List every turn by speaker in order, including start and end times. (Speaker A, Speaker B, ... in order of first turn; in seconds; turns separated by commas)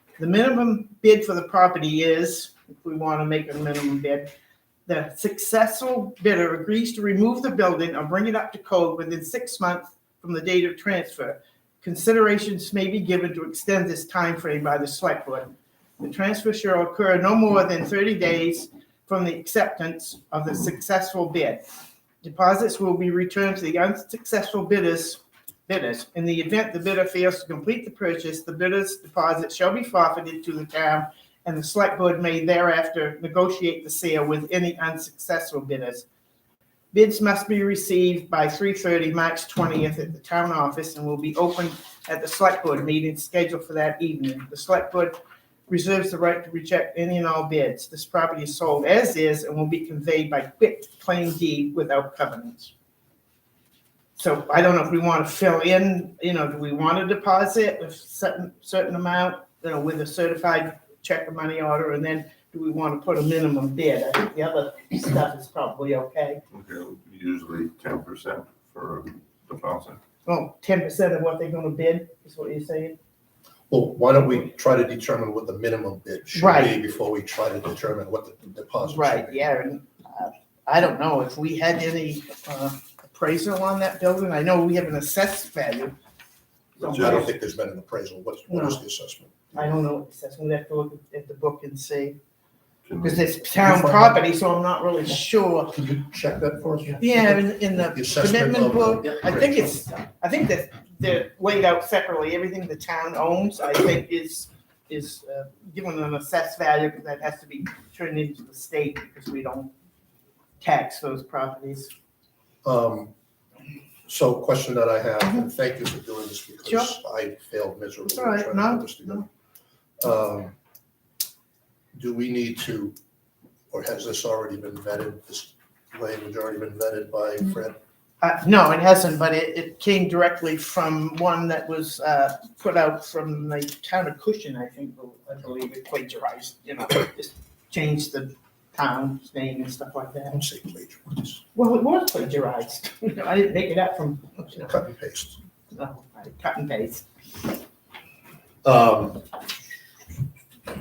Speaker A: 0.2-4.3, Speaker A: 4.8-21.6, Speaker A: 22.2-36.0, Speaker A: 36.9-52.7, Speaker A: 54.2-66.4, Speaker B: 66.5-70.0, Speaker A: 70.2-73.0, Speaker C: 73.7-79.4, Speaker A: 76.3-76.8, Speaker A: 78.8-85.9, Speaker A: 86.8-87.3, Speaker C: 86.8-89.8, Speaker B: 86.8-87.3, Speaker A: 88.5-88.8, Speaker A: 89.5-92.2, Speaker B: 92.9-93.2, Speaker A: 93.0-95.8, Speaker C: 93.5-94.3, Speaker C: 95.7-99.8, Speaker A: 97.0-109.7, Speaker A: 110.6-111.9, Speaker C: 112.6-113.1, Speaker C: 114.1-119.3, Speaker A: 116.7-116.9, Speaker A: 118.0-119.2, Speaker C: 120.0-120.5, Speaker C: 121.9-122.9, Speaker C: 123.7-127.8, Speaker A: 128.2-140.4, Speaker C: 140.3-141.4, Speaker A: 141.5-144.7, Speaker C: 144.5-145.4, Speaker A: 145.7-147.1, Speaker C: 148.6-149.2